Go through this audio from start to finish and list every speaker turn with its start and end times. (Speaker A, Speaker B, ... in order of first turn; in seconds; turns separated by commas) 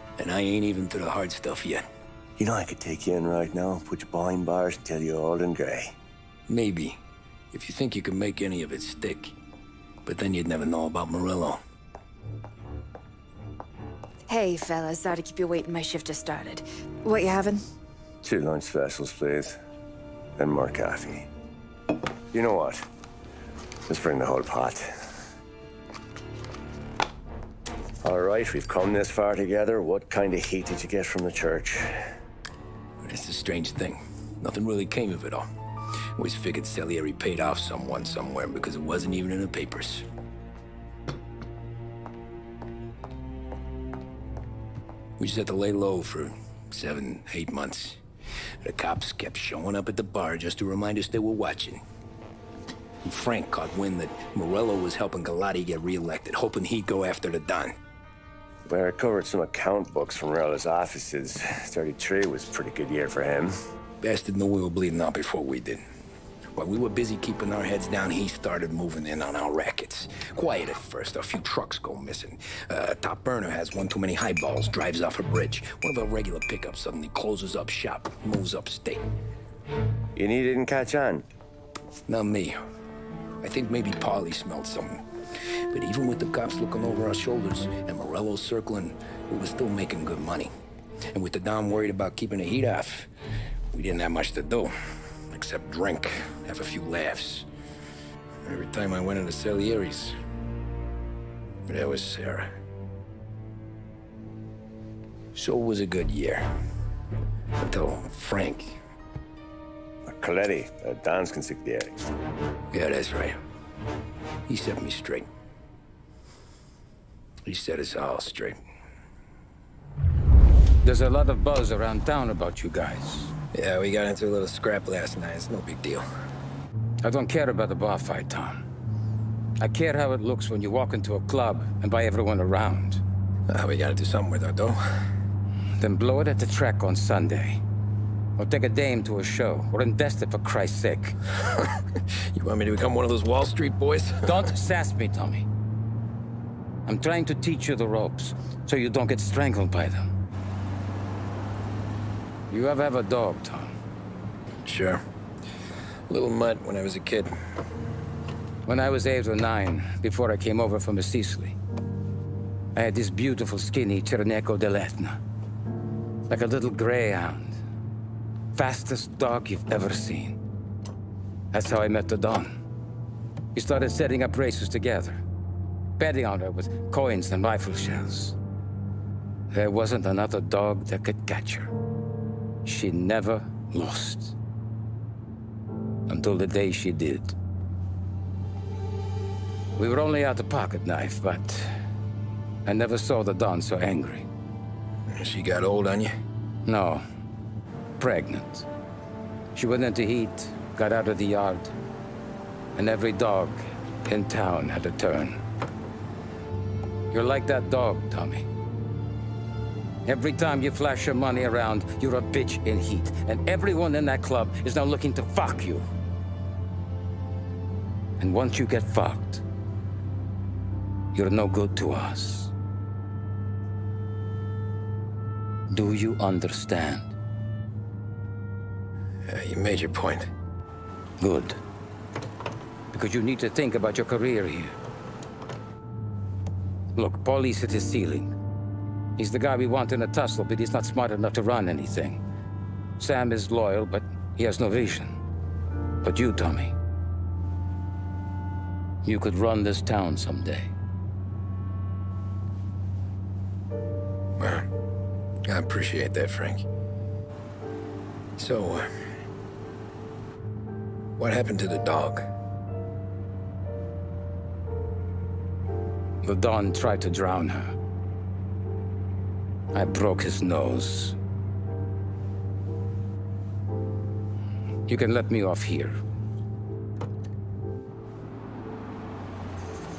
Speaker A: 0.2-1.9, Speaker B: 2.4-6.0, Speaker A: 6.5-7.0, Speaker A: 7.5-9.3, Speaker A: 10.1-11.6, Speaker C: 14.3-17.6, Speaker B: 18.2-19.6, Speaker B: 20.4-21.3, Speaker B: 22.3-22.9, Speaker B: 23.9-24.9, Speaker B: 28.0-32.1, Speaker A: 33.0-35.5, Speaker A: 36.2-40.1, Speaker A: 45.2-48.0, Speaker A: 48.6-51.8, Speaker A: 53.0-57.7, Speaker B: 58.7-63.5, Speaker A: 64.0-65.8, Speaker A: 66.6-79.1, Speaker B: 80.2-81.3, Speaker A: 82.1-82.5, Speaker A: 83.4-85.0, Speaker A: 85.7-90.5, Speaker A: 91.1-93.1, Speaker A: 93.7-94.7, Speaker A: 95.3-97.5, Speaker A: 98.5-100.2, Speaker A: 101.7-102.5, Speaker A: 105.3-106.5, Speaker A: 107.6-108.8, Speaker B: 110.1-112.0, Speaker A: 112.7-113.4, Speaker A: 114.5-115.3, Speaker A: 117.5-118.6, Speaker D: 120.8-123.3, Speaker A: 123.5-126.0, Speaker D: 127.0-128.6, Speaker D: 129.6-133.0, Speaker A: 133.5-134.8, Speaker D: 135.8-137.6, Speaker D: 138.4-141.2, Speaker A: 141.5-144.3, Speaker D: 144.2-145.4, Speaker D: 146.9-150.1, Speaker D: 152.5-153.7, Speaker A: 154.7-155.0, Speaker A: 156.1-157.3, Speaker D: 158.7-161.6, Speaker D: 162.8-165.2, Speaker D: 166.3-167.6, Speaker D: 168.5-170.4, Speaker D: 171.5-172.5, Speaker D: 173.6-175.2, Speaker D: 176.0-178.4, Speaker D: 179.5-181.7, Speaker D: 182.6-184.3, Speaker D: 186.1-187.3, Speaker D: 189.8-191.7, Speaker D: 192.7-194.3, Speaker A: 195.1-196.1, Speaker D: 196.7-197.0, Speaker D: 198.0-198.7, Speaker D: 199.5-201.7, Speaker D: 202.8-205.4, Speaker D: 207.1-208.5, Speaker D: 210.1-215.8, Speaker D: 218.2-219.4, Speaker D: 221.1-222.5, Speaker D: 225.7-227.1, Speaker A: 229.3-230.3, Speaker D: 231.2-231.6, Speaker D: 232.9-234.8, Speaker D: 236.9-238.3, Speaker D: 239.2-242.2, Speaker D: 243.0-245.2, Speaker D: 246.0-246.8, Speaker D: 249.0-250.7, Speaker A: 254.4-254.7, Speaker A: 255.5-256.6, Speaker A: 258.4-258.9, Speaker A: 261.2-262.3, Speaker D: 266.2-267.8, Speaker D: 269.7-271.2, Speaker D: 274.9-276.0